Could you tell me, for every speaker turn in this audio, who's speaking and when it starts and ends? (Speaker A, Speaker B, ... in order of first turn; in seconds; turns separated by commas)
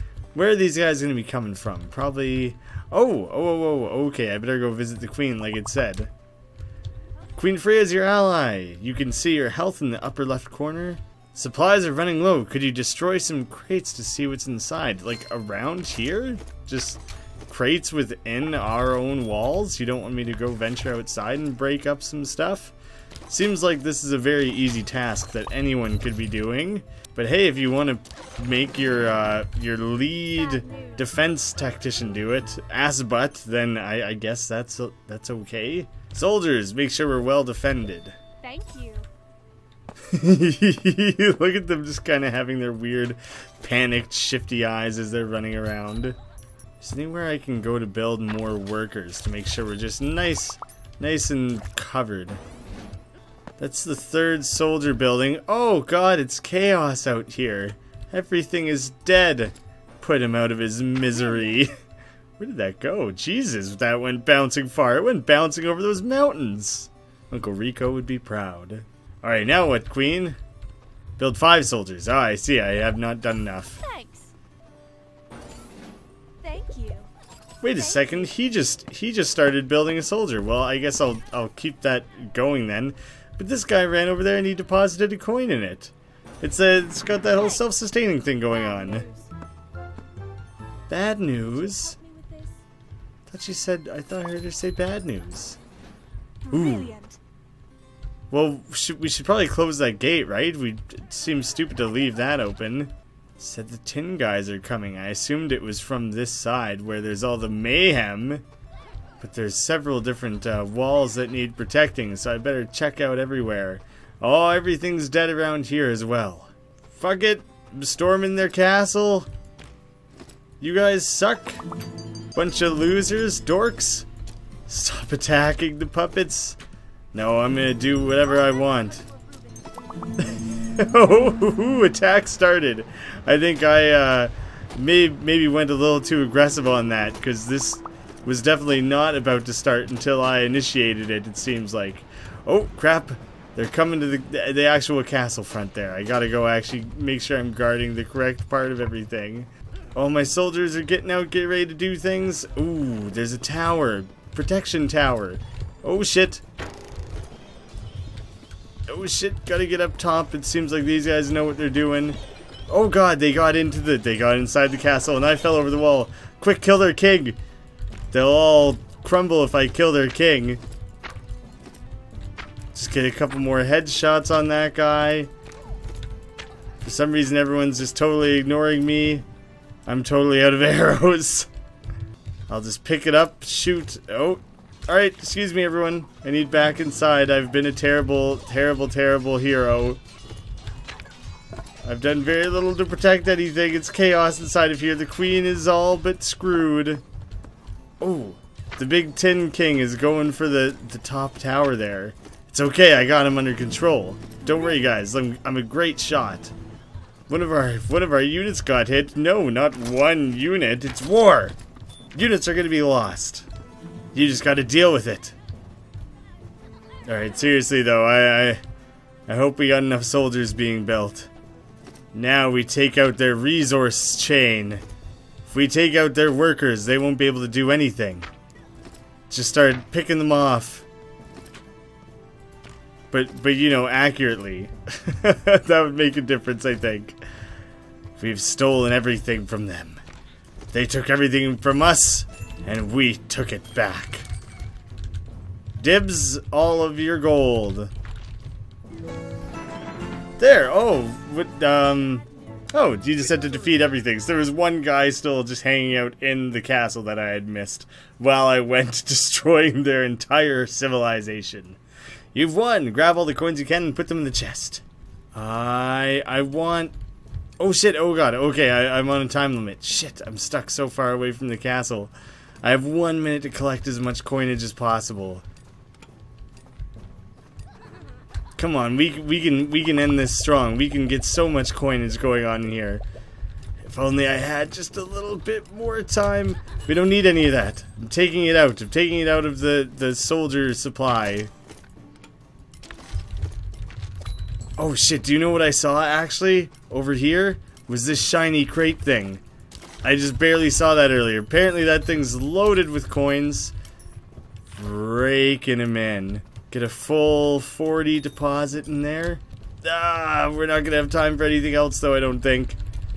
Speaker A: 0.3-6.1, Speaker A: 7.4-22.7, Speaker A: 23.3-38.1, Speaker B: 30.3-31.1, Speaker B: 38.4-39.1, Speaker A: 40.1-46.2, Speaker A: 46.8-52.4, Speaker A: 53.6-61.8, Speaker B: 61.1-61.7, Speaker A: 62.4-70.4, Speaker A: 71.2-73.8, Speaker B: 73.8-74.3, Speaker B: 76.4-77.1, Speaker A: 77.6-89.1, Speaker B: 77.7-78.3, Speaker B: 88.4-89.3, Speaker A: 90.9-92.0, Speaker B: 91.4-92.6, Speaker A: 93.3-95.6, Speaker B: 96.5-97.2, Speaker A: 96.5-97.0, Speaker A: 98.3-108.5, Speaker A: 109.2-119.3, Speaker A: 120.6-121.6, Speaker A: 122.3-124.1, Speaker A: 124.7-126.6, Speaker A: 127.1-129.1, Speaker B: 128.2-129.9, Speaker A: 130.2-156.4, Speaker A: 158.9-167.4, Speaker A: 168.1-170.6, Speaker A: 172.7-175.3, Speaker A: 176.8-179.2, Speaker A: 179.9-181.5, Speaker A: 182.5-190.0, Speaker A: 191.8-197.0, Speaker A: 198.0-206.5, Speaker A: 207.3-211.6, Speaker A: 212.1-213.5, Speaker A: 214.1-215.4, Speaker A: 217.1-218.6, Speaker A: 219.3-221.3, Speaker A: 222.1-224.8, Speaker A: 225.4-228.3, Speaker A: 229.3-230.9, Speaker A: 233.1-237.2, Speaker A: 238.2-240.0, Speaker A: 240.7-244.3, Speaker A: 245.8-247.9, Speaker A: 250.4-261.8, Speaker A: 262.3-264.8, Speaker A: 265.4-266.9, Speaker A: 267.6-275.4, Speaker A: 278.6-283.0, Speaker A: 283.8-291.5, Speaker A: 294.8-299.4, Speaker A: 300.0-303.7, Speaker A: 304.7-312.8